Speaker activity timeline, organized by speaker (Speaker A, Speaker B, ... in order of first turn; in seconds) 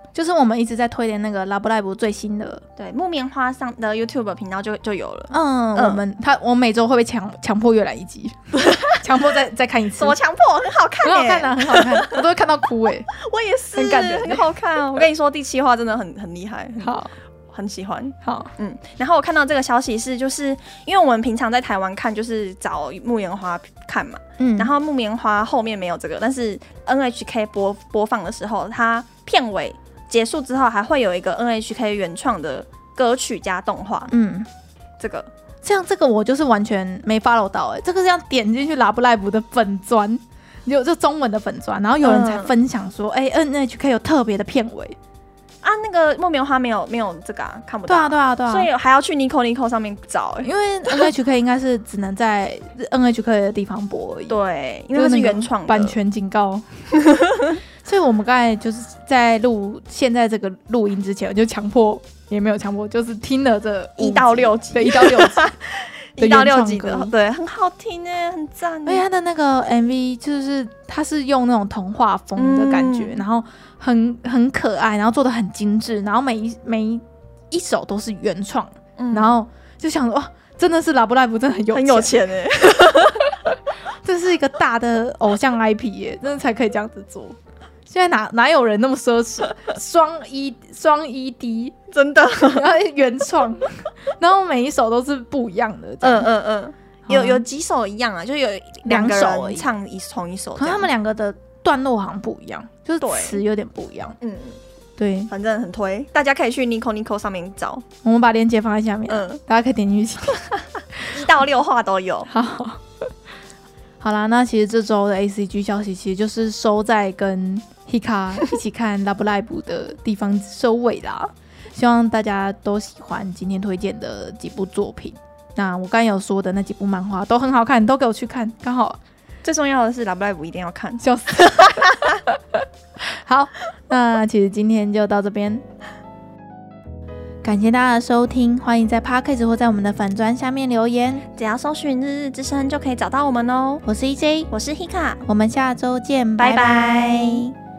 Speaker A: 0.1-2.6, 5.3-10.2, 11.0-13.1, 13.7-14.4, 16.8-17.1, 18.2-18.5, 24.4-24.7, 34.1-34.5, 35.6-45.0, 47.9-48.7, 50.4-54.4, 54.9-56.6, 57.8-65.5, 66.2-67.1, 68.8-82.2, 82.8-83.3, 84.0-87.3, 87.9-91.8, 92.5-96.3, 97.1-97.4, 98.8-99.7, 100.6-104.2, 105.0-105.3, 108.0-110.4, 112.3-112.8, 114.0-129.0, 131.0-132.3, 133.2-135.6, 137.4-141.2, 143.8-144.5, 145.2-147.5
Speaker B: 2.8-6.0, 8.5-9.3, 10.0-12.2, 13.1-34.1, 35.0-35.3, 42.0-42.5, 45.6-51.1, 54.3-56.0, 57.1-57.5, 64.0-69.0, 72.3-73.2, 79.0-79.3, 81.7-83.3, 91.9-92.7, 96.0-100.9, 103.0-103.4, 104.2-104.6, 105.3-107.8, 109.1-109.4, 111.1-112.3, 129.4-132.2, 141.4-143.8, 144.5-145.2, 146.4-147.5